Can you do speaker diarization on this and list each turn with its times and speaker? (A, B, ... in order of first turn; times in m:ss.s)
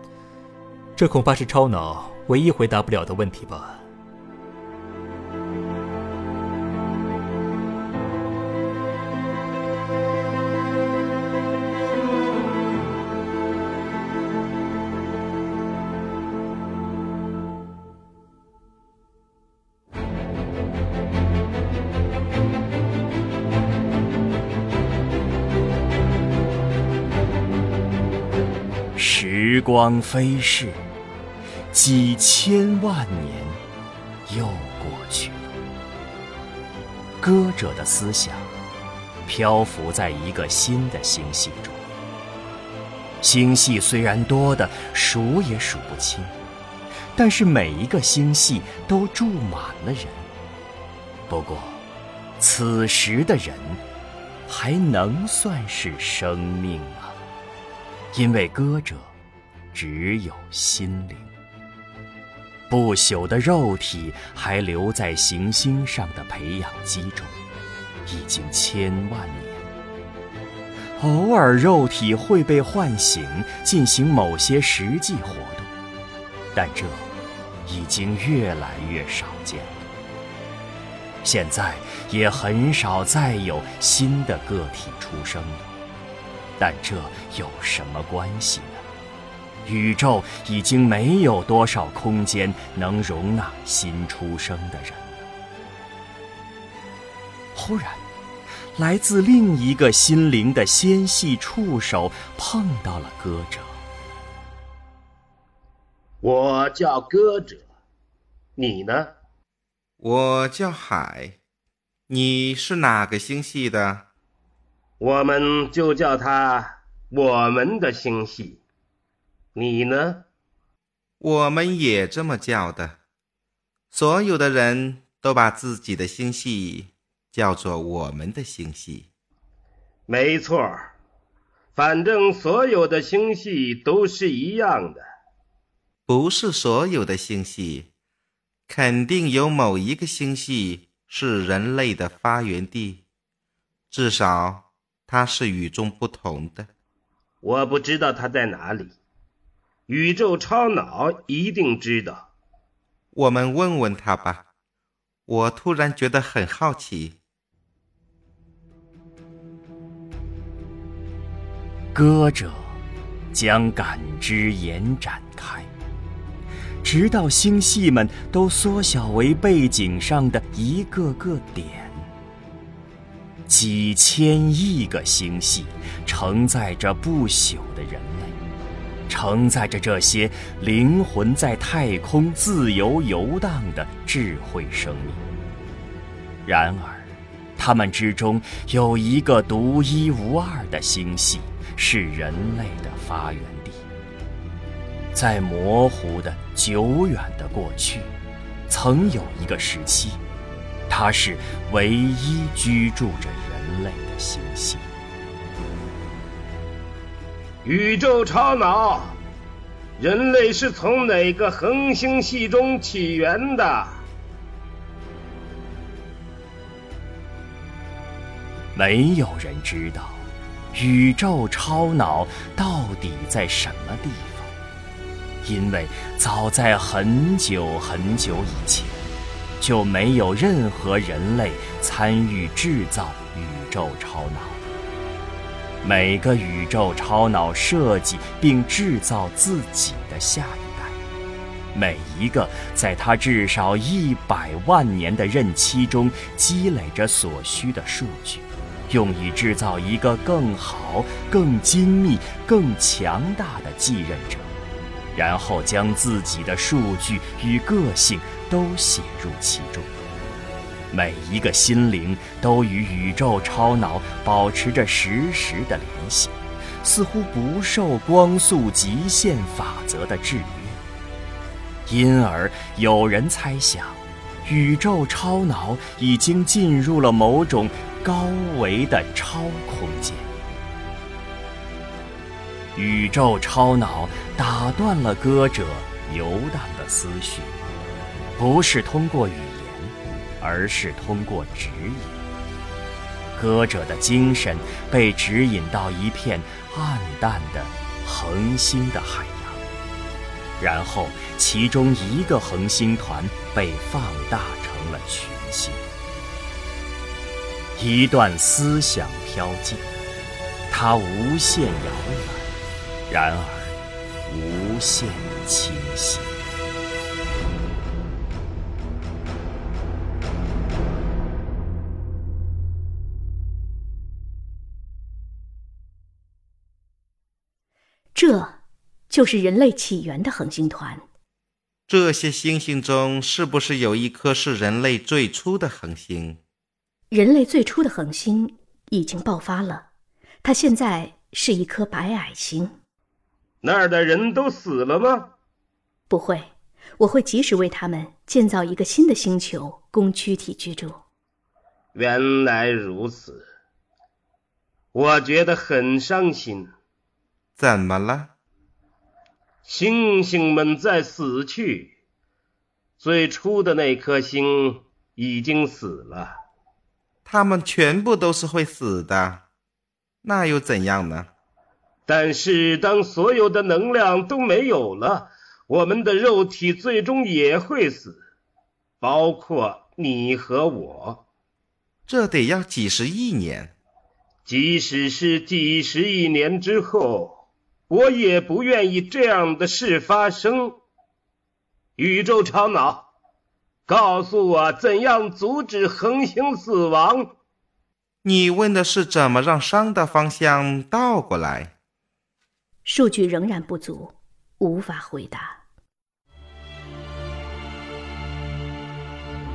0:01.0-0:03.8 A
0:29.0-0:30.8 B
0:31.7-0:33.6 B
0:34.3-0:35.5 B
0:37.2-0:38.5 B
0:39.3-0:41.8 B
0:43.2-0:46.4 B
0:47.2-0:50.3 B
0:51.3-0:51.8 B
0:52.4-0:53.8 B
0:54.5-0:57.2 B
0:58.1-0:59.1 B
0:59.7-1:01.3 B
1:02.7-1:07.4 B
1:08.1-1:09.7 B
1:11.0-1:15.7 B
1:16.5-1:17.1 B
1:17.6-1:19.9 B
1:21.2-1:25.7 B
1:26.6-1:28.8 B
1:29.6-1:35.3 B
1:37.6-1:38.0 B
1:38.8-1:43.8 B
1:46.2-1:47.6 C
1:48.6-1:49.1 C
1:50.0-1:51.4 D
1:52.1-1:54.1 D
1:55.0-1:58.6 C
1:59.6-2:00.2 C
2:01.2-2:03.0 D
2:03.9-2:09.1 D
2:10.1-2:10.9 C
2:11.8-2:15.0 C
2:16.1-2:17.9 D
2:18.7-2:23.0 D
2:23.9-2:26.7 D
2:27.4-2:29.0 C
2:29.9-2:32.3 C
2:33.1-2:34.5 D
2:35.3-2:37.2 D
2:41.9-2:42.8 B
2:43.3-2:45.7 B
2:46.8-2:52.1 B
2:53.5-2:58.4 B
2:59.1-3:05.3 B
3:06.5-3:13.8 B
3:15.1-3:18.1 B
3:18.7-3:20.2 B
3:20.9-3:24.9 B
3:27.6-3:29.2 C
3:30.0-3:34.0 C
3:38.8-3:44.5 B
3:45.4-3:54.6 B
3:55.8-4:01.0 B
4:01.7-4:14.5 B
4:15.1-4:20.0 B
4:20.9-4:30.8 B
4:31.9-4:40.3 B
4:42.8-4:47.6 B
4:48.4-4:52.2 B
4:53.4-4:59.6 B
5:00.6-5:05.9 B
5:07.8-5:09.9 B
5:10.7-5:12.6 B
5:13.1-5:16.4 B
5:28.1-5:28.6 E
5:29.1-5:31.0 E
5:31.9-5:36.4 D
5:37.1-5:39.9 E
5:40.4-5:42.8 E
5:43.6-5:45.3 C
5:46.1-5:51.0 E
5:52.0-5:53.5 C
5:54.9-5:56.7 C
5:57.6-5:58.3 D
5:59.6-6:01.9 C
6:03.0-6:06.4 C
6:07.3-6:09.4 D
6:10.2-6:11.3 D
6:12.1-6:18.2 C
6:19.0-6:21.2 C
6:22.1-6:23.7 D
6:24.4-6:30.8 C
6:32.0-6:33.0 C
6:33.9-6:37.3 C
6:38.2-6:41.7 D
6:42.8-6:45.6 E